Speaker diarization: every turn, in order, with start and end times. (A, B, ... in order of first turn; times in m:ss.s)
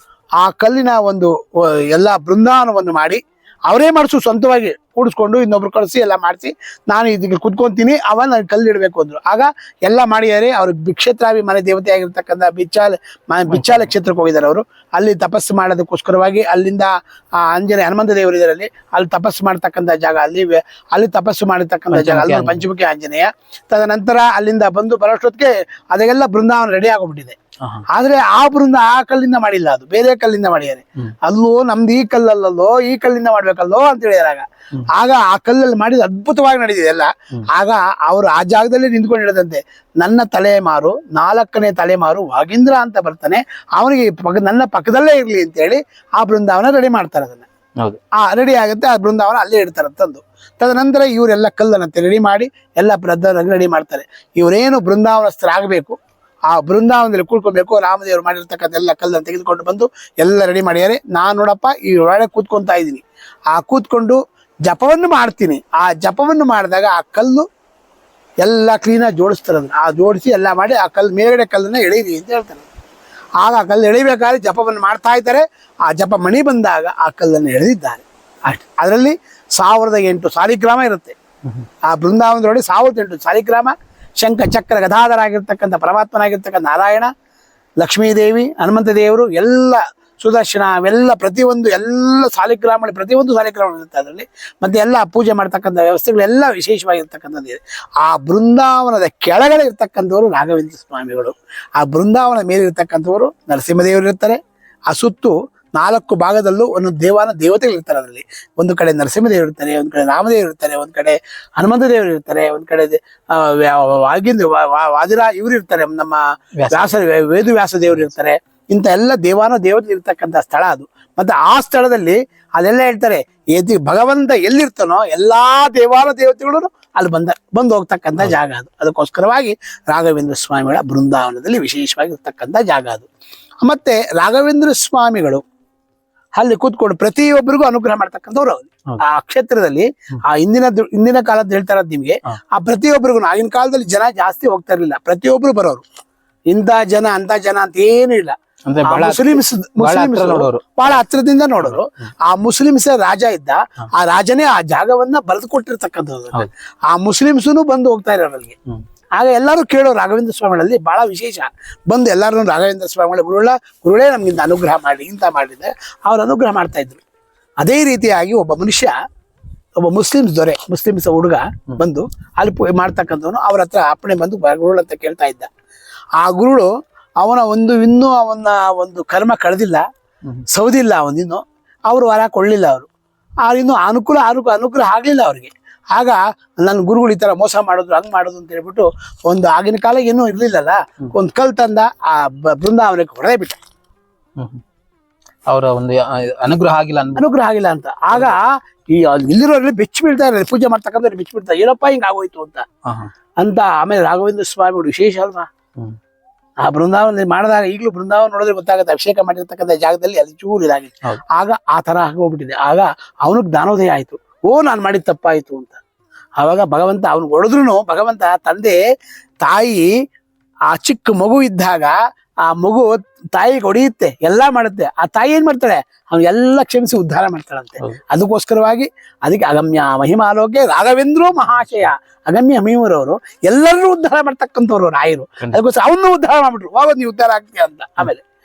0:00.4-0:27.4 A
0:13.5-0:13.9 B
0:21.9-0:22.7 B
0:27.9-0:47.5 A
0:48.2-0:56.0 A
0:56.5-1:07.5 A
1:08.4-1:12.7 A
1:13.4-1:21.2 A
1:21.8-1:27.1 A
1:27.8-1:44.4 A
1:44.9-2:13.1 A
1:56.6-1:57.0 B
2:13.6-2:15.4 A
2:16.4-2:25.8 A
2:26.5-2:28.4 A
2:28.7-2:31.0 B
2:28.9-2:38.6 A
2:31.6-2:32.1 B
2:39.2-2:47.0 A
2:47.6-2:48.9 A
2:49.8-2:55.5 A
2:56.2-2:56.7 A
2:57.2-2:59.8 A
3:00.5-3:02.9 A
3:03.4-3:13.6 A
3:14.4-3:14.6 B
3:15.5-3:17.3 B
3:17.2-3:22.7 A
3:18.1-3:18.4 B
3:22.9-3:23.1 B
3:23.4-3:25.5 A
3:26.6-3:35.8 A
3:36.4-3:38.8 A
3:39.4-3:39.9 A
3:40.7-3:58.2 A